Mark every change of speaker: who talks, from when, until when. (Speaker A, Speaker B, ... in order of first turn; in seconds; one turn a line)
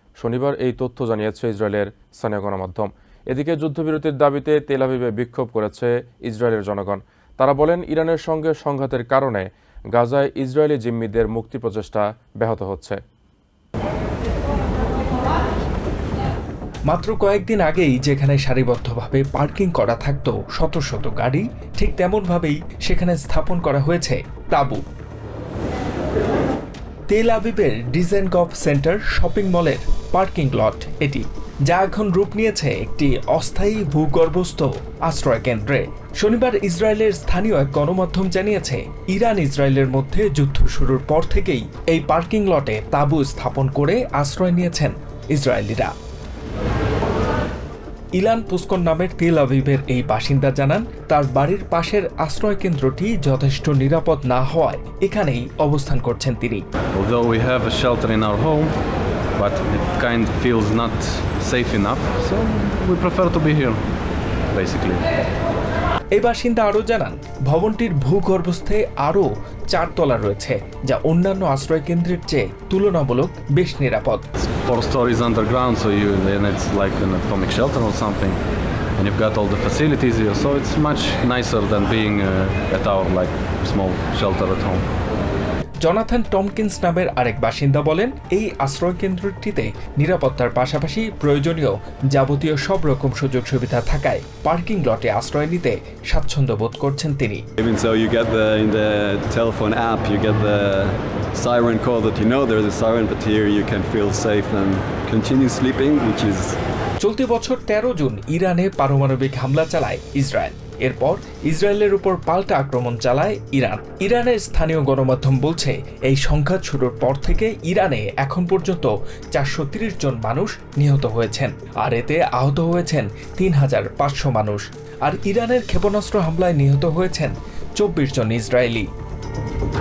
Speaker A: 0.2-13.0
Speaker B: 16.9-24.8
Speaker B: 27.1-45.9
Speaker B: 48.1-56.6
Speaker C: 56.9-58.7
Speaker C: 59.4-63.8
Speaker C: 64.5-65.0
Speaker B: 66.2-74.2
Speaker C: 74.4-78.4
Speaker C: 79.0-84.8
Speaker B: 85.8-97.4
Speaker D: 97.6-106.6
Speaker B: 107.0-128.9